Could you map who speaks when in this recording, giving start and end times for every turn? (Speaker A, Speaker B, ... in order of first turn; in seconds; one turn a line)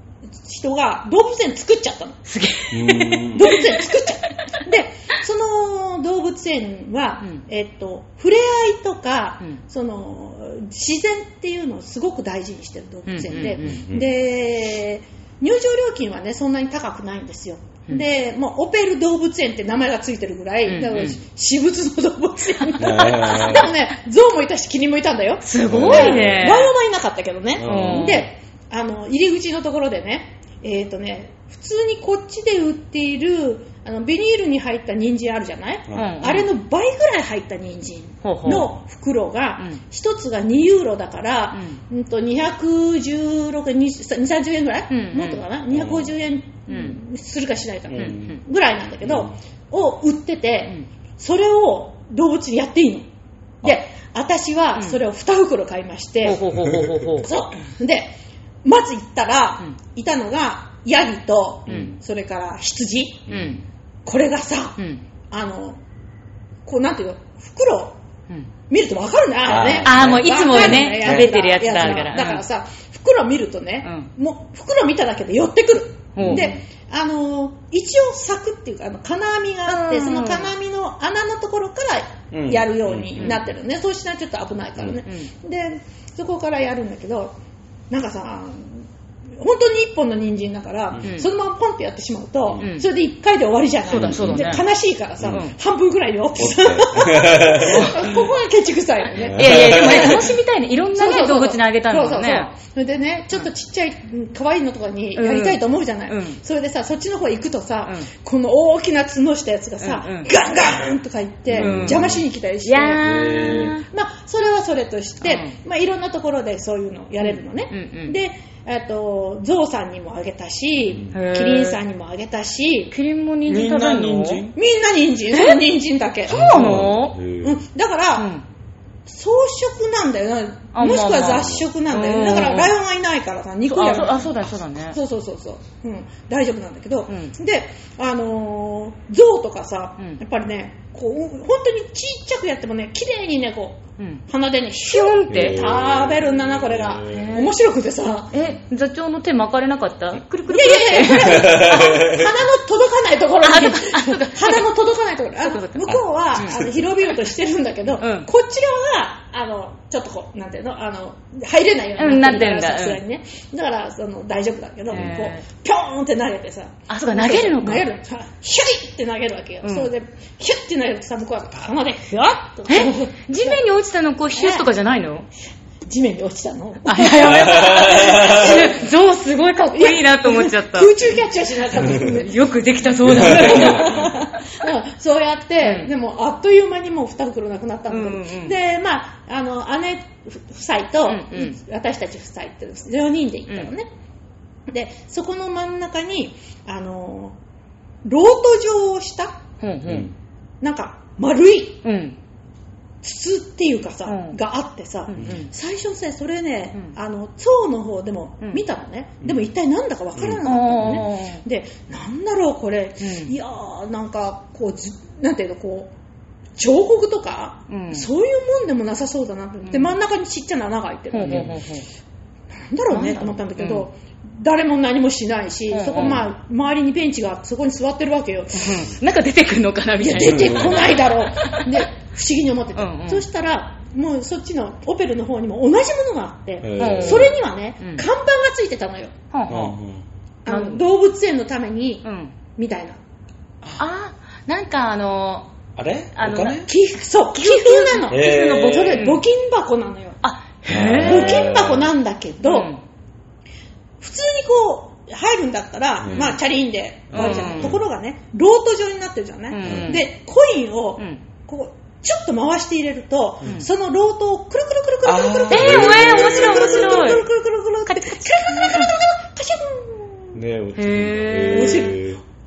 Speaker A: 0.4-2.2
Speaker B: 2.3-4.6
Speaker C: 2.7-3.5
Speaker A: 3.4-53.1
Speaker B: 13.1-13.7
Speaker C: 13.6-14.1
Speaker B: 20.7-21.2
Speaker C: 22.8-23.7
Speaker B: 22.9-23.5
Speaker B: 25.4-26.7
Speaker C: 25.6-26.5
Speaker C: 27.6-28.3
Speaker B: 27.6-28.3
Speaker C: 35.9-36.1
Speaker B: 35.9-36.5
Speaker B: 38.2-38.7
Speaker B: 41.5-41.8
Speaker B: 44.9-45.4
Speaker C: 45.7-46.1
Speaker B: 46.7-47.0
Speaker C: 47.9-48.4
Speaker B: 48.0-48.4
Speaker C: 49.0-49.3
Speaker A: 53.6-56.4
Speaker B: 56.2-57.3
Speaker A: 57.2-63.3
Speaker C: 61.7-62.0
Speaker C: 63.3-63.6
Speaker B: 63.3-63.6
Speaker A: 64.1-64.8
Speaker A: 65.3-65.8
Speaker A: 66.7-68.0
Speaker A: 68.7-87.4
Speaker C: 69.5-71.3
Speaker B: 69.8-72.4
Speaker B: 73.8-74.1
Speaker B: 76.2-76.5
Speaker C: 76.2-76.6
Speaker B: 79.7-80.5
Speaker C: 82.3-83.5
Speaker B: 83.2-83.4
Speaker A: 87.9-88.9
Speaker A: 89.4-100.3
Speaker B: 91.0-91.3
Speaker B: 92.6-92.9
Speaker B: 93.9-94.6
Speaker C: 93.9-94.6
Speaker C: 95.2-95.5
Speaker B: 95.3-95.5
Speaker C: 96.4-98.2
Speaker B: 97.7-97.9
Speaker C: 99.1-100.3
Speaker B: 99.3-102.5
Speaker A: 100.9-122.9
Speaker B: 105.2-106.4
Speaker B: 109.8-110.3
Speaker C: 111.5-112.2
Speaker B: 111.6-112.0
Speaker B: 112.6-113.8
Speaker C: 113.0-113.8
Speaker B: 115.2-115.6
Speaker B: 117.2-118.2
Speaker B: 121.1-121.8
Speaker B: 122.9-124.5
Speaker C: 123.5-124.6
Speaker A: 124.5-126.9
Speaker B: 125.3-125.6
Speaker B: 126.3-127.2
Speaker C: 126.3-127.6
Speaker A: 127.4-128.3
Speaker B: 128.2-128.4
Speaker A: 129.1-148.3
Speaker B: 130.7-132.8
Speaker C: 131.4-131.7
Speaker B: 133.7-135.0
Speaker B: 137.1-137.3
Speaker B: 144.0-144.2
Speaker B: 144.8-145.6
Speaker C: 145.3-147.3
Speaker B: 147.1-147.5
Speaker B: 148.3-151.8
Speaker A: 150.5-173.6
Speaker C: 151.2-152.3
Speaker B: 153.4-154.7
Speaker B: 155.4-156.7
Speaker B: 158.0-158.3
Speaker B: 162.0-163.0
Speaker B: 164.9-165.4
Speaker C: 164.9-165.2
Speaker B: 166.9-167.9
Speaker B: 169.6-169.9
Speaker B: 172.7-175.3
Speaker A: 174.3-174.7
Speaker A: 175.9-178.9
Speaker B: 176.9-180.9
Speaker C: 177.2-178.6
Speaker A: 179.7-182.4
Speaker B: 181.8-184.4
Speaker C: 183.1-184.1
Speaker A: 183.1-193.9
Speaker B: 185.6-185.9
Speaker B: 187.9-188.6
Speaker B: 191.1-191.6
Speaker A: 194.7-197.4
Speaker A: 198.0-199.4
Speaker B: 199.6-200.1
Speaker C: 199.9-200.1
Speaker A: 200.6-201.8
Speaker B: 201.8-202.2
Speaker A: 203.0-215.9
Speaker B: 204.1-204.4
Speaker B: 205.1-205.5
Speaker C: 210.2-211.1
Speaker B: 210.4-211.4
Speaker B: 213.0-213.3
Speaker A: 216.6-221.6
Speaker B: 217.7-218.1
Speaker B: 219.7-219.9
Speaker B: 221.1-221.9
Speaker A: 222.6-228.9
Speaker B: 222.9-223.9
Speaker B: 225.7-226.2
Speaker C: 226.0-226.2
Speaker B: 228.5-231.9
Speaker A: 230.0-239.1
Speaker C: 230.2-231.1
Speaker B: 232.8-233.3
Speaker C: 236.6-237.4
Speaker B: 236.8-238.1
Speaker B: 239.3-239.8
Speaker C: 239.5-240.1
Speaker A: 240.4-243.0
Speaker B: 240.5-240.8
Speaker B: 242.0-242.3
Speaker B: 243.8-245.5
Speaker C: 245.8-246.7
Speaker B: 246.2-246.7
Speaker A: 246.7-250.2
Speaker B: 247.3-249.3
Speaker C: 248.1-249.1
Speaker B: 250.2-251.5
Speaker C: 250.7-251.9
Speaker A: 251.0-252.7
Speaker B: 252.4-252.8
Speaker A: 254.0-270.4
Speaker C: 256.0-256.3
Speaker B: 257.1-257.8
Speaker C: 257.2-257.8
Speaker B: 259.5-260.1
Speaker C: 259.6-259.9
Speaker C: 265.0-267.1
Speaker B: 265.5-267.2
Speaker B: 267.9-268.9
Speaker C: 270.3-272.2
Speaker B: 270.8-271.9
Speaker A: 271.4-272.1